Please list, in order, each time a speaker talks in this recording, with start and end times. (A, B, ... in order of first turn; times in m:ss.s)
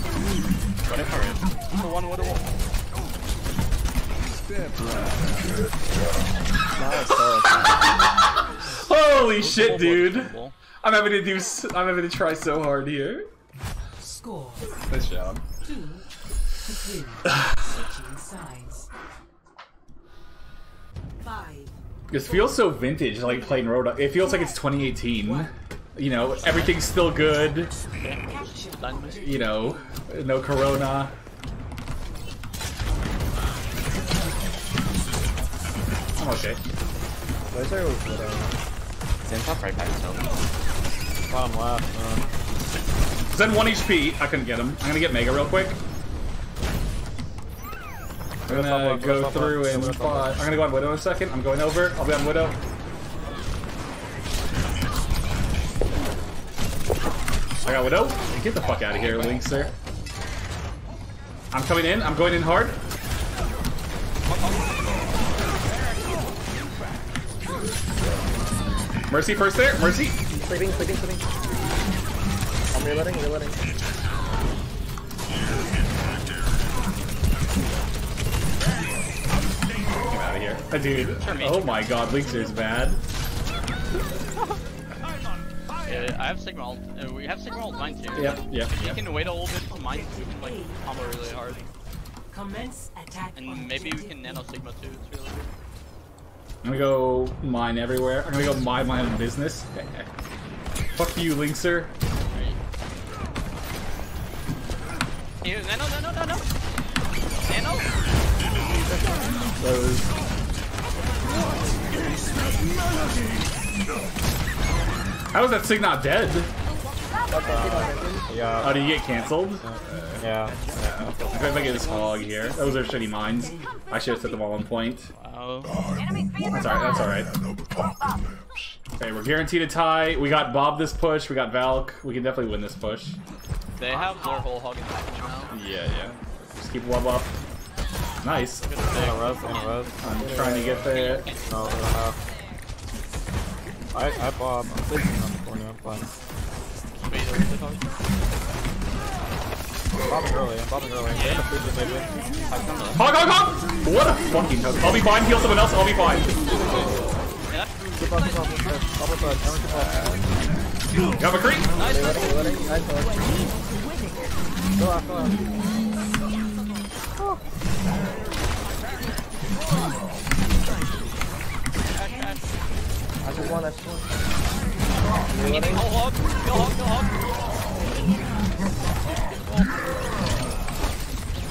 0:00.9-0:02.5 A
0:06.8-0:07.9 B
0:08.7-0:13.3 C
0:09.4-0:10.6 A
0:14.1-0:14.5 D
0:14.7-0:15.4 C
0:18.1-0:18.9 D
0:22.1-0:27.8 C
0:27.9-0:29.2 A
0:29.2-0:31.1 C
0:36.2-0:36.6 C
0:37.5-0:38.6 B
0:39.3-0:39.8 A
0:41.3-0:42.2 E
0:43.3-0:45.8 C
0:48.5-0:50.5 E
0:48.5-0:52.6 C
0:57.6-0:59.7 C
0:59.0-0:59.5 A
1:01.5-1:02.8 C
1:04.3-1:04.7 A
1:09.1-1:10.2 C
1:10.3-1:11.2 B
1:12.7-1:13.6 B
1:20.0-1:23.0 C
1:21.2-1:21.9 A
1:25.8-1:31.6 A
1:28.2-1:29.0 C
1:32.4-1:33.3 D
1:33.4-1:35.5 A
1:36.6-1:40.1 C
1:41.0-1:41.9 C
1:42.3-1:42.6 A
1:45.4-1:46.4 A
1:47.5-1:47.9 A
1:48.9-1:49.3 B
1:49.6-1:50.1 C
1:55.3-1:56.5 C
1:57.3-1:58.3 B
1:57.4-1:58.9 E
1:58.6-2:00.2 C
1:59.6-2:01.1 E
2:00.8-2:05.1 C
2:01.1-2:02.6 A
2:05.2-2:05.8 A
2:06.5-2:07.3 C
2:09.0-2:13.2 C
2:13.8-2:15.5 A
2:15.5-2:17.3 C
2:18.2-2:18.7 C
2:18.6-2:19.8 A
2:18.9-2:20.9 E
2:20.0-2:21.3 C
2:20.9-2:21.9 A
2:21.5-2:22.2 E
2:23.9-2:26.2 E
2:27.0-2:27.9 A
2:30.0-2:32.1 E
2:31.2-2:31.5 A
2:32.5-2:33.0 A
2:33.0-2:36.3 C
2:37.5-2:37.9 A
2:38.0-2:40.3 E
2:41.2-2:41.7 C
2:41.7-2:43.2 B
2:44.8-2:45.4 E
2:52.0-2:52.4 A
2:53.2-2:54.1 B
2:55.3-2:55.9 B
2:55.3-2:57.2 A
2:59.2-2:59.8 A